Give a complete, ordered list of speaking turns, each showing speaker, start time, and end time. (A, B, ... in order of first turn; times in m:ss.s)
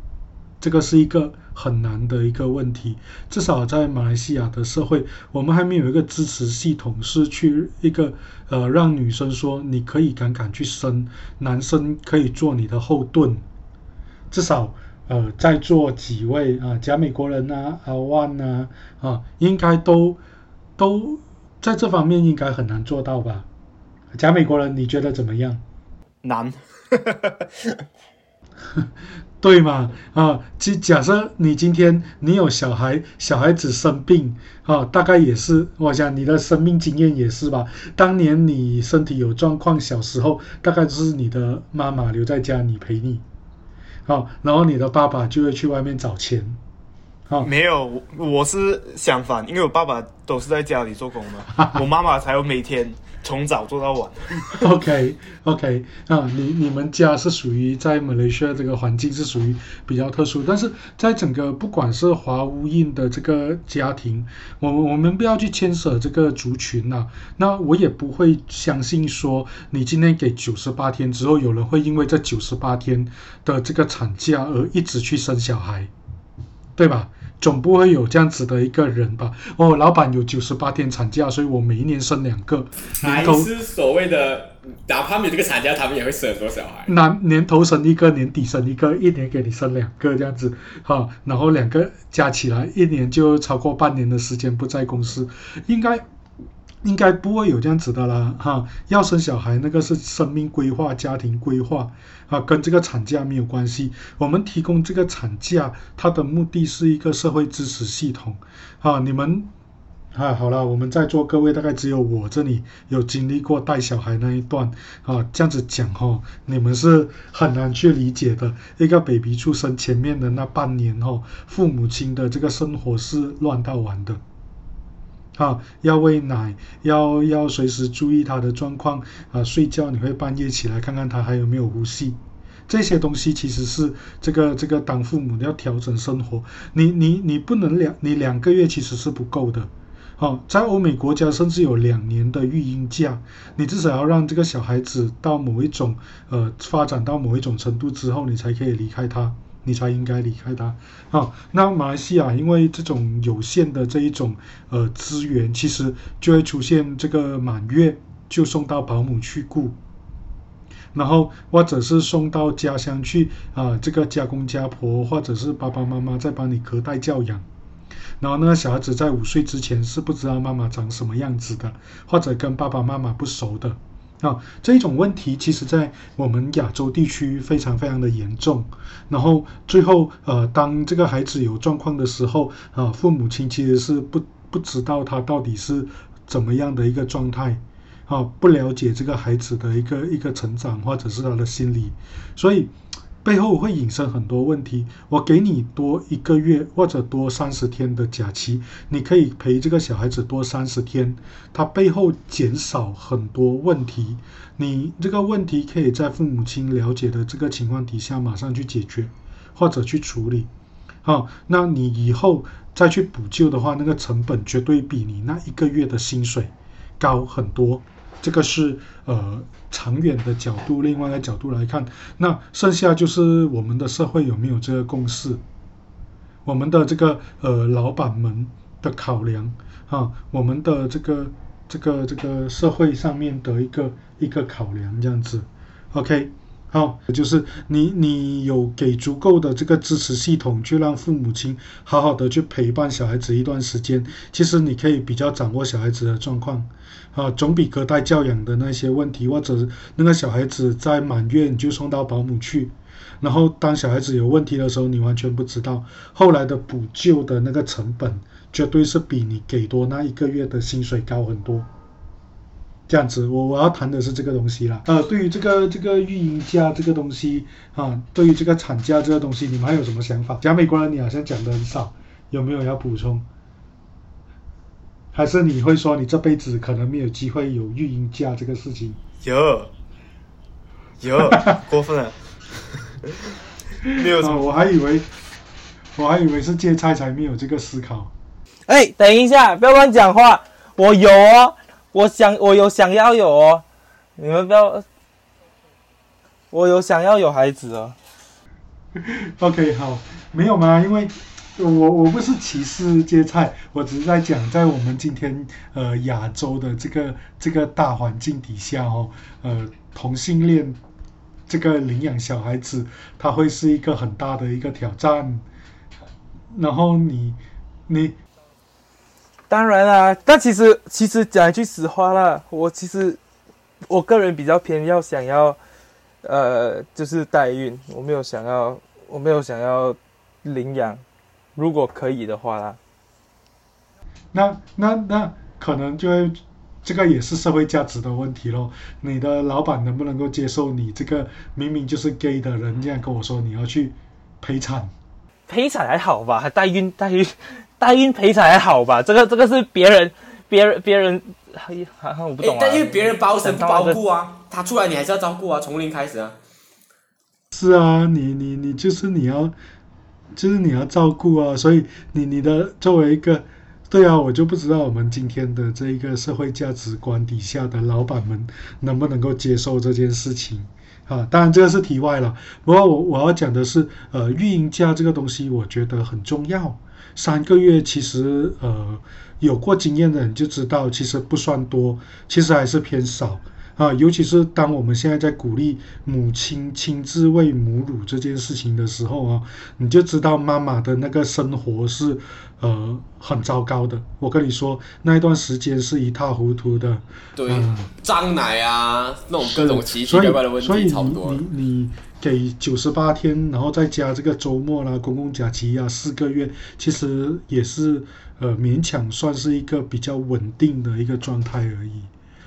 0:00.6-0:13.4 A
0:14.3-0:20.2 A
0:20.8-0:23.5 A
0:24.1-0:25.6 A
0:26.2-0:27.4 B
0:29.4-0:43.2 A
0:44.1-0:46.6 A
0:47.4-0:54.6 B
0:54.6-1:15.9 A
1:16.8-1:23.5 A
1:23.0-1:26.9 C
1:26.9-1:36.0 A
1:36.8-1:49.5 A
1:50.1-2:04.2 A
2:05.4-2:39.8 A
2:40.9-2:47.4 A
2:48.2-3:12.7 A
3:13.2-3:30.5 A
3:31.0-3:45.4 A
3:46.5-4:21.7 A
4:22.9-4:33.2 A
4:35.1-4:39.0 A
4:39.2-4:39.7 B
4:41.0-4:42.2 B
4:43.8-4:44.5 B
4:44.2-4:45.1 A
4:46.0-4:48.1 A
4:48.7-4:53.6 D
4:54.2-4:54.8 D
4:56.5-4:58.0 D
4:59.0-5:10.8 A
5:11.5-5:15.4 A
5:16.5-5:18.2 A
5:19.5-5:23.2 D
5:23.9-5:25.6 D
5:26.2-5:31.0 D
5:31.6-5:32.8 D
5:34.3-5:44.9 A
5:45.5-5:54.0 D
5:52.4-5:56.4 C
5:57.5-5:59.5 A
6:00.4-6:37.9 A
6:37.4-6:41.4 C
6:39.4-6:52.1 A